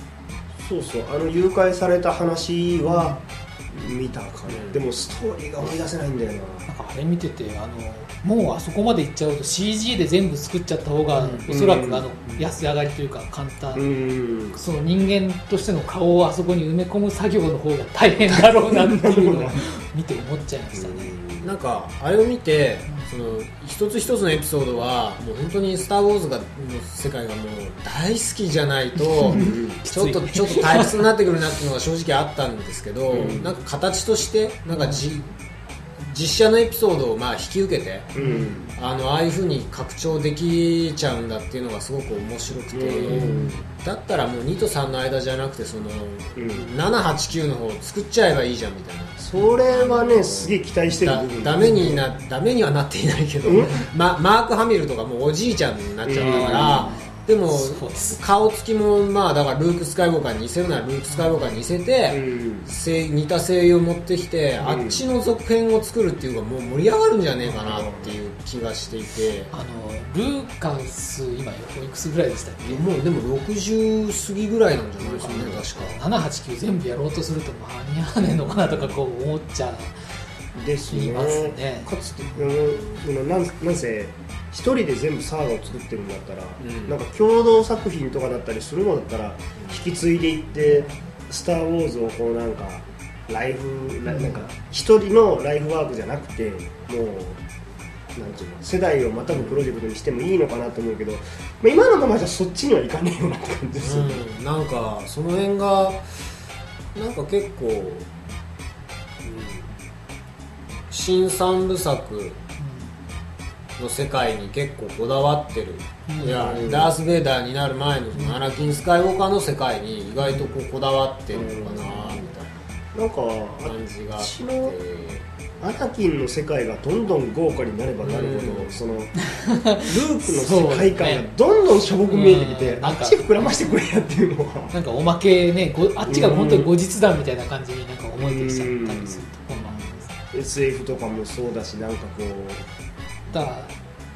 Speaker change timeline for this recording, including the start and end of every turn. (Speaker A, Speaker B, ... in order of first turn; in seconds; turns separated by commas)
Speaker A: 0.6-6.7, Speaker B: 2.9-3.2, Speaker C: 4.5-4.8, Speaker B: 6.7-13.8, Speaker A: 11.4-12.1, Speaker A: 13.7-14.6, Speaker B: 14.5-21.2, Speaker A: 18.3-19.6, Speaker A: 20.7-21.5, Speaker C: 21.4-35.3, Speaker B: 29.0-31.1, Speaker A: 29.3-29.8, Speaker A: 33.1-33.5, Speaker B: 34.7-35.0, Speaker C: 36.0-38.2, Speaker A: 38.1-38.7, Speaker B: 38.2-38.6, Speaker C: 38.7-69.5, Speaker A: 42.7-43.5, Speaker B: 43.1-43.7, Speaker A: 46.4-46.7, Speaker A: 49.2-52.0, Speaker B: 51.6-52.0, Speaker A: 53.4-53.9, Speaker A: 56.0-56.9, Speaker B: 56.1-58.2, Speaker B: 61.1-61.5, Speaker A: 62.1-62.7, Speaker A: 64.6-65.0, Speaker B: 67.4-67.8, Speaker A: 67.7-68.2, Speaker B: 69.5-72.9, Speaker C: 72.6-76.0, Speaker A: 75.0-75.6, Speaker B: 75.1-80.0, Speaker A: 80.5-97.4, Speaker B: 80.9-82.4, Speaker C: 86.6-87.0, Speaker C: 89.6-89.9, Speaker B: 94.1-94.4, Speaker A: 98.1-104.2, Speaker C: 99.3-99.7, Speaker C: 103.8-106.0, Speaker C: 106.9-108.1, Speaker C: 109.2-109.7, Speaker C: 110.9-112.4, Speaker B: 112.6-112.9, Speaker C: 113.8-122.5, Speaker B: 116.1-116.6, Speaker A: 116.4-116.9, Speaker B: 118.1-118.4, Speaker B: 120.2-120.5, Speaker A: 121.3-122.3, Speaker A: 122.9-124.8, Speaker C: 123.6-125.2, Speaker A: 125.6-129.1, Speaker C: 128.0-128.8, Speaker B: 129.4-131.3, Speaker A: 129.8-134.7, Speaker B: 132.1-133.4, Speaker B: 134.7-140.1, Speaker A: 136.1-136.7, Speaker A: 138.2-139.8, Speaker A: 140.3-142.6, Speaker B: 143.3-143.7